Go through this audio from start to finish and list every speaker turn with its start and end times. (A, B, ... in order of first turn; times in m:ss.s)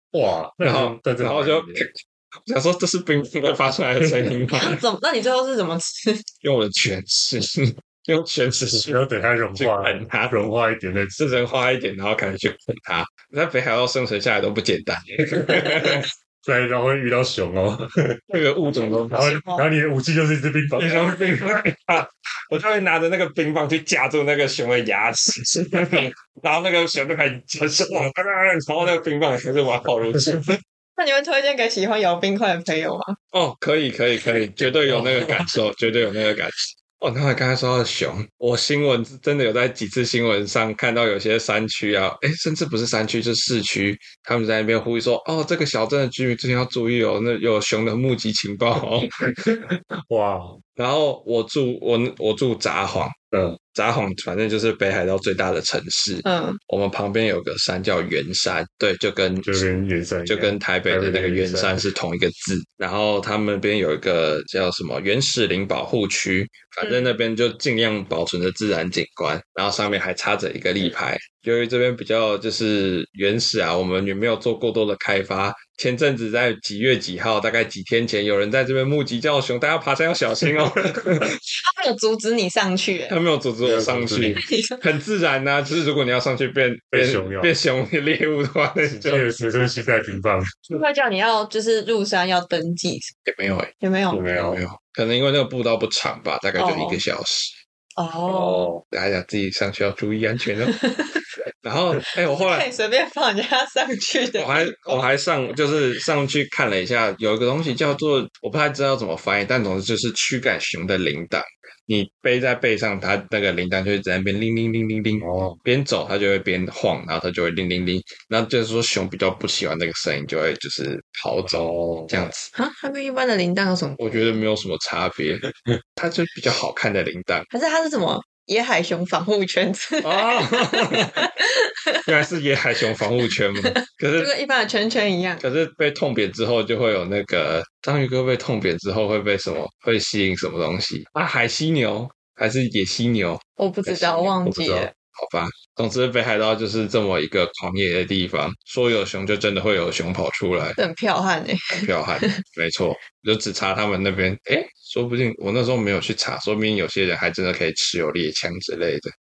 0:00.1-0:01.9 A
0:00.6-0:04.8 B
0:04.5-0:06.2 C
0:06.4-0:08.9 B
0:08.7-0:11.2 A
0:09.6-0:10.4 B
0:11.2-0:16.1 B
0:15.4-0:18.2 A
0:18.3-0:19.4 B
0:19.1-0:21.2 A
0:19.2-0:19.7 C
0:20.8-0:30.6 B
0:31.0-0:33.2 C
0:33.3-0:49.6 B
0:34.6-0:35.6 A
0:50.1-0:50.6 A
0:50.8-0:53.2 B
0:53.3-0:53.6 A
0:53.7-0:59.6 B
0:56.2-0:56.6 C
0:59.4-1:01.8 A
1:00.3-1:21.4 B
1:06.8-1:07.2 C
1:21.6-1:23.2 C
1:23.1-1:29.2 B
1:23.6-1:24.4 A
1:24.4-1:24.8 C
1:26.9-1:27.5 A
1:28.8-1:30.8 A
1:30.7-1:33.1 C
1:33.3-1:33.7 B
1:33.8-1:34.2 C
1:34.1-1:34.6 A
1:34.3-1:37.6 B
1:36.6-1:37.0 C
1:38.0-1:38.7 C
1:38.3-1:38.8 A
1:38.9-1:40.8 B
1:40.6-1:41.2 C
1:41.6-1:42.7 B
1:42.2-1:45.0 C
1:44.4-2:02.5 B
1:55.2-1:55.6 A
2:01.4-2:02.3 A
2:02.5-2:04.4 C
2:04.0-2:05.4 B
2:06.0-2:07.5 B
2:07.5-2:12.1 C
2:10.0-2:11.3 B
2:12.1-2:14.3 B
2:13.0-2:15.4 C
2:15.4-2:24.4 B
2:23.6-2:24.9 C
2:24.4-2:24.9 A
2:25.1-2:30.8 B
2:30.8-2:32.4 C
2:31.8-2:39.1 B